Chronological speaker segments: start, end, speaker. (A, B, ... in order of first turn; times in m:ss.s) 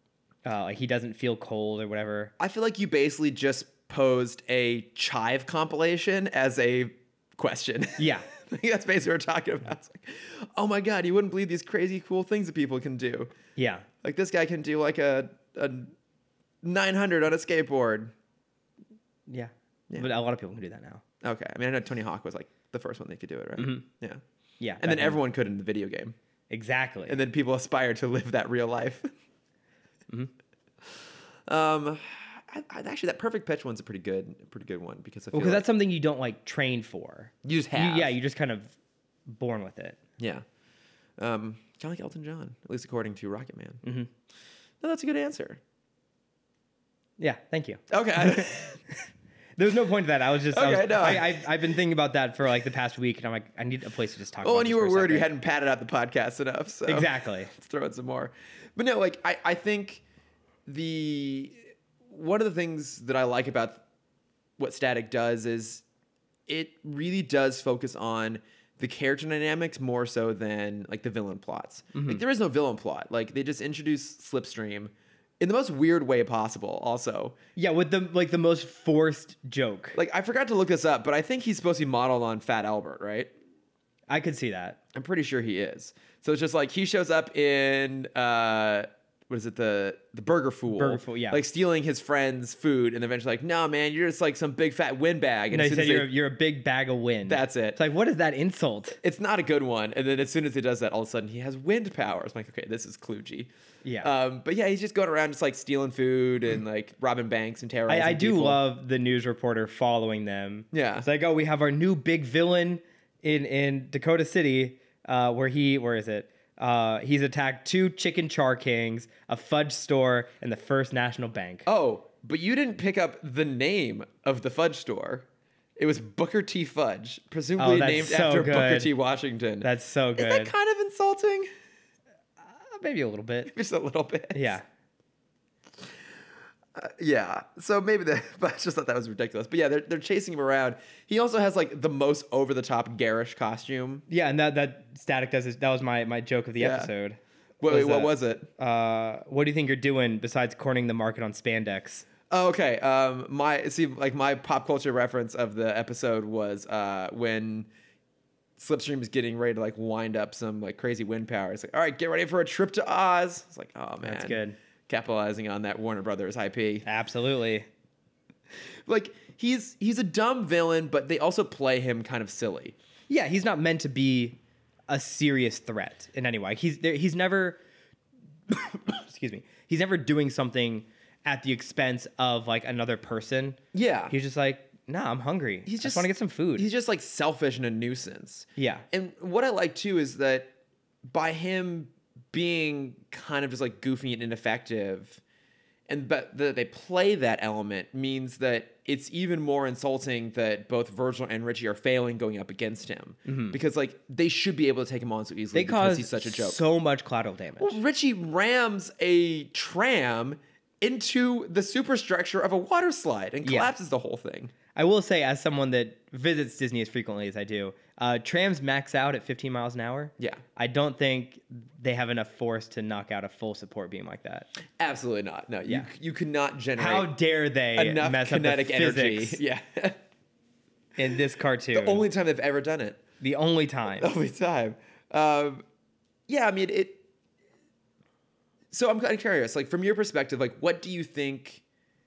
0:00.4-0:02.3 A
0:02.4-0:13.3 B
0:08.0-0:08.3 A
0:13.6-0:13.9 A
0:14.0-0:15.9 B
0:16.6-0:18.1 B
0:19.3-0:21.0 A
0:21.2-0:24.2 B
0:23.6-0:23.9 A
0:24.6-0:25.2 A
0:24.8-0:26.1 B
0:26.5-0:27.2 A
0:27.1-0:29.1 B
0:30.8-0:35.6 B
0:35.3-0:38.7 A
0:37.4-0:38.1 B
0:39.2-0:40.0 A
0:40.2-0:40.4 B
0:41.2-0:43.8 B
0:43.8-0:44.1 A
0:44.8-0:45.6 B
0:47.2-0:49.0 A
0:47.9-0:48.8 B
0:49.6-0:55.3 A
0:50.5-0:51.5 B
0:54.4-1:00.0 B
0:56.8-0:57.5 A
1:00.6-1:03.8 B
1:04.6-1:05.8 B
1:06.5-1:17.4 B
1:11.9-1:12.2 A
1:17.6-1:20.0 A
1:19.9-1:23.3 B
1:24.1-1:24.8 A
1:24.9-1:36.1 B
1:30.7-1:31.4 A
1:35.5-1:39.0 A
1:37.2-1:37.8 B
1:39.0-1:43.5 B
1:43.8-1:44.1 A
1:44.0-1:48.6 B
1:47.9-2:01.6 A
1:50.7-1:51.0 B
2:01.6-2:11.5 B
2:07.6-2:08.9 A
2:09.6-2:10.5 A
2:12.4-2:13.5 A
2:13.5-2:14.5 B
2:14.3-2:14.6 A
2:16.7-2:24.0 B
2:24.1-2:32.0 A
2:26.6-2:26.9 B
2:27.6-2:28.5 B
2:32.3-2:37.7 B
2:38.6-2:46.8 B
2:44.0-2:44.6 A
2:46.8-2:47.7 A
2:48.8-2:52.8 B
2:53.1-2:57.6 A
2:58.5-3:06.7 A
3:03.7-3:04.1 B
3:05.6-3:10.5 B
3:08.6-3:08.8 A
3:11.0-3:15.2 B
3:15.9-3:26.6 B
3:23.2-3:23.6 A
3:25.5-3:27.8 A
3:27.6-3:34.5 B
3:33.4-3:33.7 A
3:34.7-3:44.5 A
3:44.8-3:47.1 B
3:46.8-3:49.4 A
3:47.7-3:50.0 B
3:51.0-3:52.0 A
3:51.7-3:53.0 B
3:53.2-3:54.1 A
3:54.0-3:55.6 B
3:56.3-3:57.0 B
3:58.7-4:01.6 B